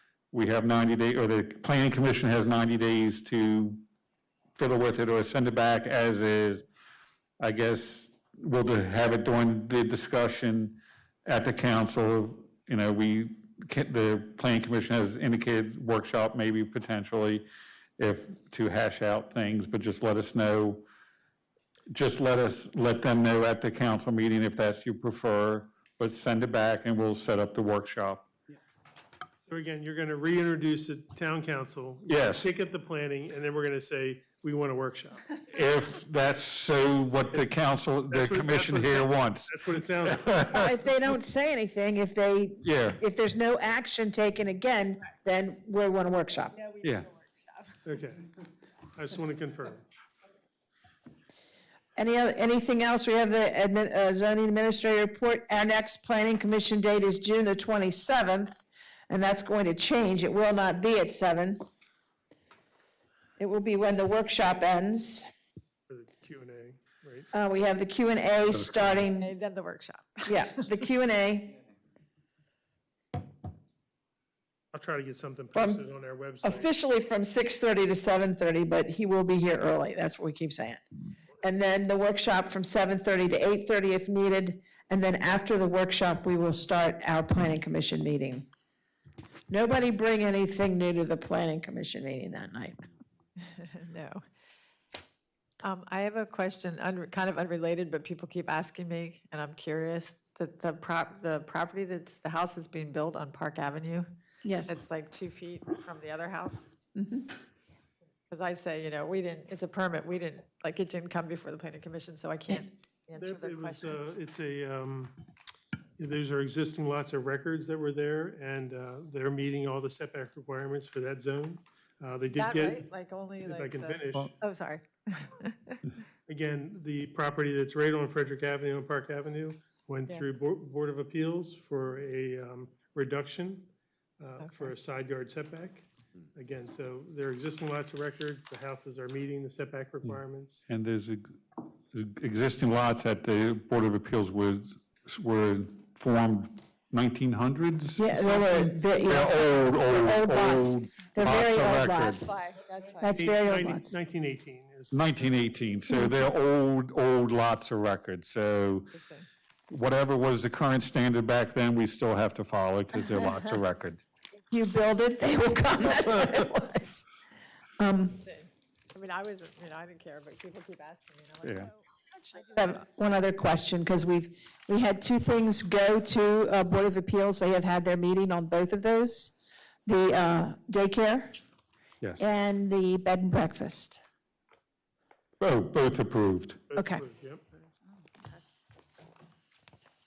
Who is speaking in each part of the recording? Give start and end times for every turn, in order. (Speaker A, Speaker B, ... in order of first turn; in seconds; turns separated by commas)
Speaker A: 0.3-3.8, Speaker A: 4.5-6.7, Speaker A: 7.4-17.5, Speaker A: 18.0-20.9, Speaker A: 21.9-28.3, Speaker B: 29.5-35.5, Speaker A: 32.1-32.5, Speaker A: 35.5-40.6, Speaker B: 38.1-40.6, Speaker C: 40.5-46.6, Speaker A: 42.6-43.0, Speaker A: 46.8-47.1, Speaker B: 47.8-48.4, Speaker B: 48.9-49.9, Speaker C: 52.0-58.6, Speaker C: 59.1-61.6, Speaker C: 63.4-65.3, Speaker B: 65.9-67.3, Speaker C: 67.3-69.3, Speaker A: 68.5-69.1, Speaker D: 69.2-70.6, Speaker C: 70.3-71.5, Speaker B: 74.7-76.7, Speaker C: 75.5-75.8, Speaker C: 76.4-80.8, Speaker C: 81.4-88.5, Speaker C: 89.5-92.8, Speaker D: 93.4-94.2, Speaker D: 95.6-104.1, Speaker C: 104.4-104.7, Speaker D: 104.7-106.7, Speaker C: 107.0-107.3, Speaker D: 108.3-114.1, Speaker B: 113.2-115.2, Speaker B: 116.0-122.8, Speaker D: 122.3-125.8, Speaker B: 123.4-124.3, Speaker B: 126.3-140.7, Speaker D: 134.4-134.7, Speaker A: 140.7-152.2, Speaker C: 148.0-152.3, Speaker D: 152.2-153.1, Speaker C: 153.0-153.9, Speaker B: 153.1-155.0, Speaker A: 154.9-158.9, Speaker D: 158.9-159.3, Speaker A: 159.7-164.0, Speaker C: 164.5-167.1, Speaker C: 167.8-168.2, Speaker D: 168.2-171.7, Speaker A: 171.4-171.7, Speaker C: 172.5-181.4, Speaker C: 182.2-184.0, Speaker A: 185.4-186.6, Speaker B: 186.7-187.6, Speaker C: 186.8-187.0